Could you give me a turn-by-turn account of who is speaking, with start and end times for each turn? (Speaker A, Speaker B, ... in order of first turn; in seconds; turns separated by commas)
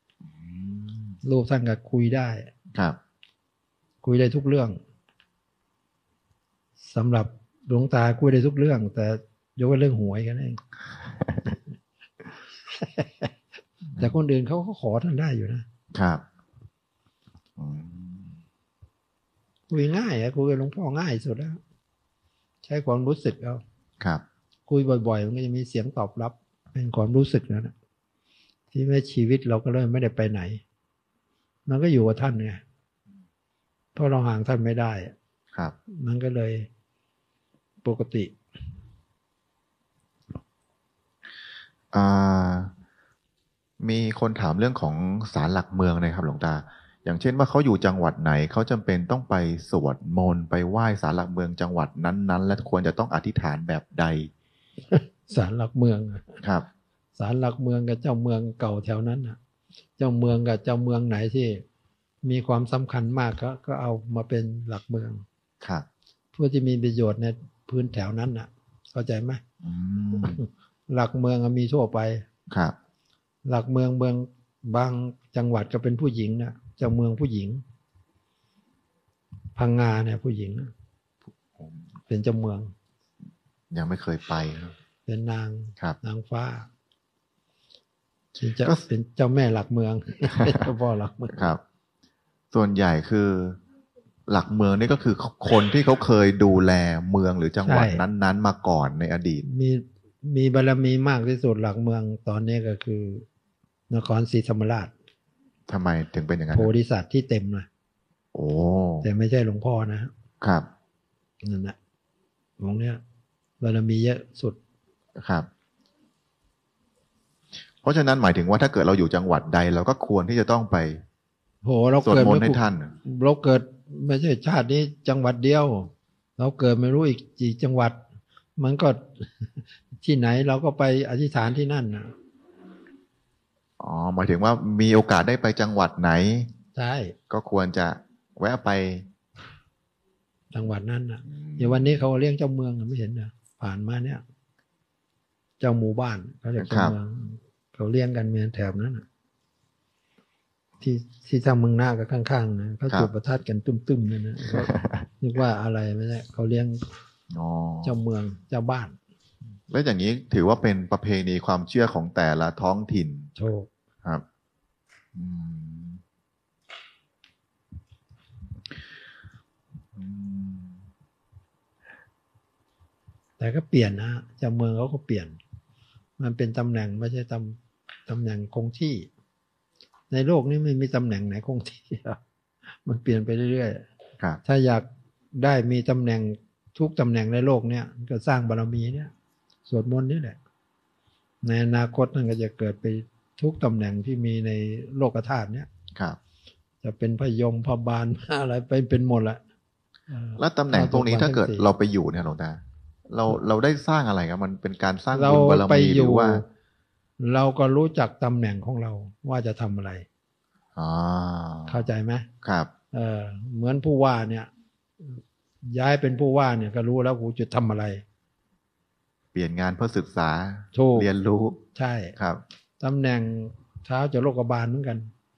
Speaker A: 0.3-1.2, Speaker B: 1.2-2.5, Speaker B: 4.0-4.8, Speaker B: 6.9-10.6, Speaker A: 11.3-11.5, Speaker B: 12.7-13.3, Speaker B: 14.0-15.7, Speaker A: 15.9-16.2, Speaker A: 17.6-18.4, Speaker B: 19.7-21.6, Speaker B: 22.6-23.6, Speaker B: 24.7-27.7, Speaker B: 28.7-30.6, Speaker B: 31.7-32.6, Speaker B: 34.0-35.1, Speaker B: 35.9-36.7, Speaker B: 37.8-38.3, Speaker A: 41.9-42.7, Speaker A: 43.8-54.3, Speaker B: 54.9-56.4, Speaker B: 57.2-59.4, Speaker B: 60.0-61.6, Speaker B: 62.2-65.2, Speaker B: 66.3-69.4, Speaker A: 69.6-70.4, Speaker B: 70.2-72.2, Speaker A: 72.5-72.8, Speaker B: 73.5-77.6, Speaker B: 79.6-80.7, Speaker B: 82.1-82.7, Speaker A: 83.7-84.7, Speaker B: 85.1-86.7, Speaker B: 88.4-91.5, Speaker A: 91.3-91.6, Speaker A: 92.5-93.6, Speaker A: 94.3-99.4, Speaker B: 97.6-98.0, Speaker B: 99.4-103.2, Speaker B: 103.9-104.9, Speaker A: 105.7-106.7, Speaker B: 106.5-107.7, Speaker A: 108.3-109.1, Speaker B: 109.0-110.1, Speaker A: 110.4-110.7, Speaker B: 111.4-111.8, Speaker B: 112.6-113.0, Speaker B: 113.6-114.6, Speaker A: 115.2-115.5, Speaker A: 117.8-121.0, Speaker B: 121.6-128.0, Speaker A: 122.0-123.0, Speaker B: 128.6-129.5, Speaker B: 130.0-132.1, Speaker A: 133.8-136.5, Speaker B: 136.8-137.2, Speaker A: 137.3-139.1, Speaker B: 140.5-144.2, Speaker A: 141.3-141.8, Speaker B: 145.6-149.1, Speaker A: 146.6-146.9, Speaker B: 150.8-154.7, Speaker A: 154.6-155.1, Speaker B: 155.2-156.9, Speaker A: 157.3-157.9, Speaker B: 157.8-159.0, Speaker A: 159.7-163.3, Speaker B: 163.4-163.7, Speaker A: 165.2-166.0, Speaker A: 169.9-170.8, Speaker B: 173.4-175.4, Speaker B: 176.2-179.1, Speaker B: 180.1-182.2, Speaker B: 182.8-183.8, Speaker B: 184.4-189.1, Speaker B: 189.7-190.4, Speaker B: 191.4-195.7, Speaker B: 196.8-199.4, Speaker B: 200.1-201.7, Speaker A: 200.4-206.4, Speaker B: 205.1-206.4, Speaker B: 207.2-210.1, Speaker A: 210.8-211.9, Speaker B: 211.7-212.3, Speaker A: 212.4-212.7, Speaker B: 212.9-214.5, Speaker B: 215.1-218.0, Speaker A: 219.3-221.6, Speaker B: 220.7-221.1, Speaker B: 221.8-222.1, Speaker A: 222.2-222.4, Speaker B: 222.8-225.1